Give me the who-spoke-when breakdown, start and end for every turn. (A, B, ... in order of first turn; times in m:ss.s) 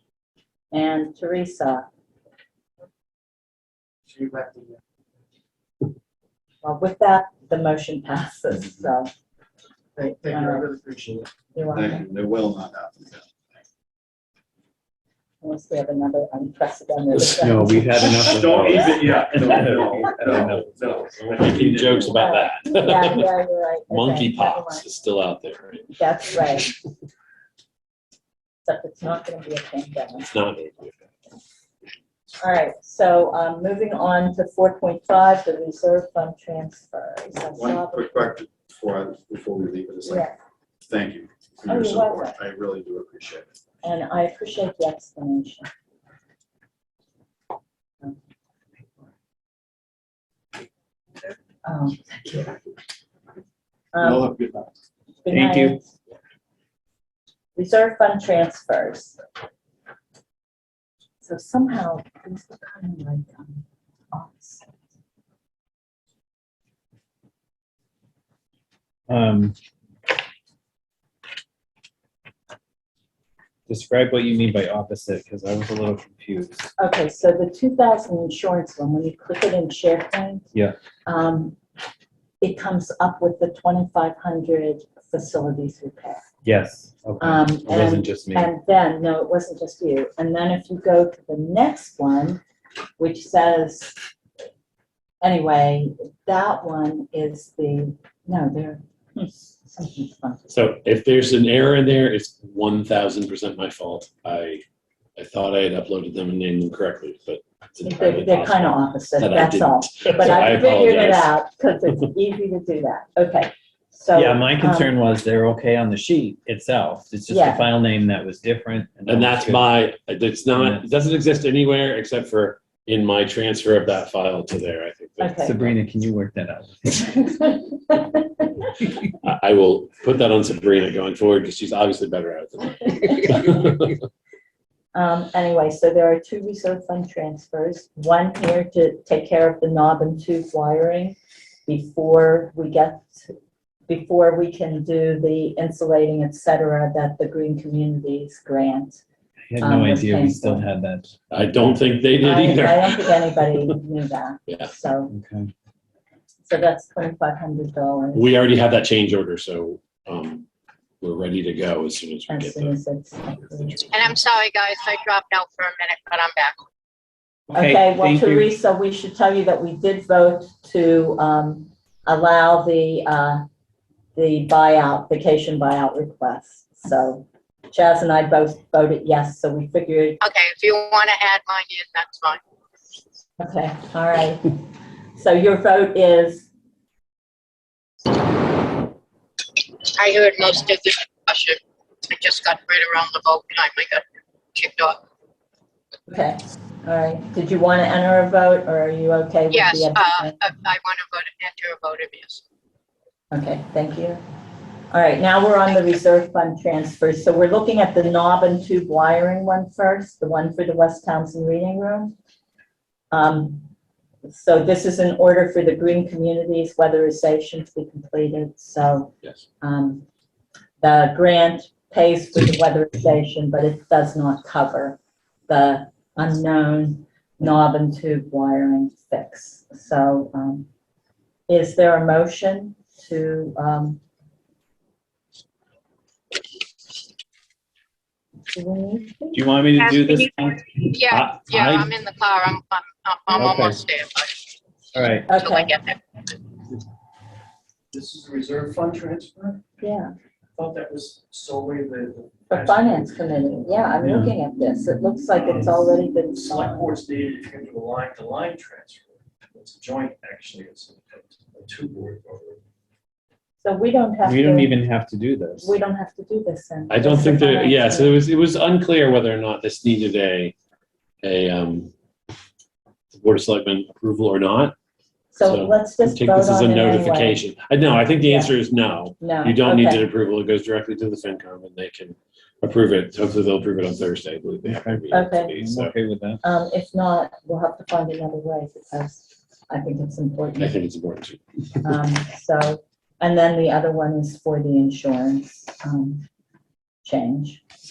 0:00.7-0:01.8 A
0:04.1-0:04.7 B
0:06.6-0:09.1 A
0:10.0-0:10.7 A
0:10.1-0:13.3 B
0:11.5-0:12.0 A
0:15.4-0:19.1 A
0:17.2-0:21.3 C
0:18.2-0:22.2 B
0:21.3-0:23.3 D
0:22.1-0:24.9 A
0:23.9-0:25.9 D
0:25.9-0:26.7 A
0:28.6-0:30.3 A
0:30.2-0:31.0 D
0:32.4-0:38.3 A
0:37.5-0:40.3 B
0:40.1-0:40.3 A
0:40.8-0:43.5 B
0:41.6-0:42.3 A
0:43.8-0:45.7 A
0:51.6-0:52.6 A
0:53.9-0:54.3 A
0:54.0-0:54.7 B
0:55.2-0:55.8 A
0:55.3-0:55.8 C
0:57.5-0:59.2 A
1:01.2-1:04.7 A
1:09.1-1:09.6 C
1:13.7-1:16.7 C
1:16.8-1:20.5 A
1:21.0-1:21.6 A
1:22.4-1:26.2 A
1:26.4-1:28.5 C
1:27.2-1:32.4 A
1:33.0-1:34.0 A
1:35.2-1:40.5 A
1:40.5-1:44.6 D
1:45.2-1:51.3 D
1:47.8-1:54.9 A
1:54.1-1:59.8 C
1:57.3-1:57.7 A
1:59.0-2:05.8 D
2:00.6-2:00.8 C
2:05.2-2:05.5 A
2:05.4-2:07.5 C
2:07.2-2:08.6 A
2:08.8-2:09.1 C
2:09.2-2:14.0 D
2:14.9-2:23.4 A
2:23.9-2:29.0 A
2:29.5-2:31.1 C
2:29.6-2:30.7 A
2:31.3-2:33.8 D
2:32.2-2:35.1 A
2:35.1-2:35.5 C
2:36.4-2:38.3 A
2:38.1-2:40.4 D
2:41.0-2:42.8 D
2:42.3-2:44.1 A
2:43.9-2:46.6 E
2:47.5-2:48.5 C
2:47.5-2:53.4 A
2:54.1-3:00.2 A
3:00.2-3:02.4 E
3:03.4-3:04.6 A
3:05.1-3:06.5 A
3:09.9-3:14.0 E
3:14.5-3:15.0 E
3:16.1-3:20.4 A
3:19.5-3:22.4 E
3:23.3-3:24.2 A
3:24.9-3:32.1 A
3:33.1-3:33.6 A
3:34.2-3:40.0 A
3:40.8-3:50.7 A
3:51.5-3:54.0 A
3:58.5-3:59.4 A
3:59.3-4:01.4 C
3:59.8-4:04.5 E
4:03.3-4:03.8 C
4:04.9-4:05.3 C
4:05.3-4:05.7 A
4:05.4-4:06.0 E
4:07.9-4:09.7 F
4:09.8-4:10.1 A
4:10.5-4:13.5 F
4:12.5-4:16.9 A
4:14.0-4:14.4 C
4:15.4-4:22.6 F
4:23.6-4:24.8 A
4:24.2-4:25.7 C
4:25.6-4:28.2 A
4:26.9-4:30.5 D
4:31.2-4:31.9 D
4:33.1-4:34.7 D
4:35.3-4:37.4 A
4:35.4-4:45.9 D
4:38.2-4:38.5 A
4:39.2-4:40.0 A
4:44.7-4:46.4 C
4:45.1-4:45.6 A
4:46.4-4:50.8 A
4:50.6-4:51.4 D
4:51.8-4:56.2 A
4:57.0-4:57.6 A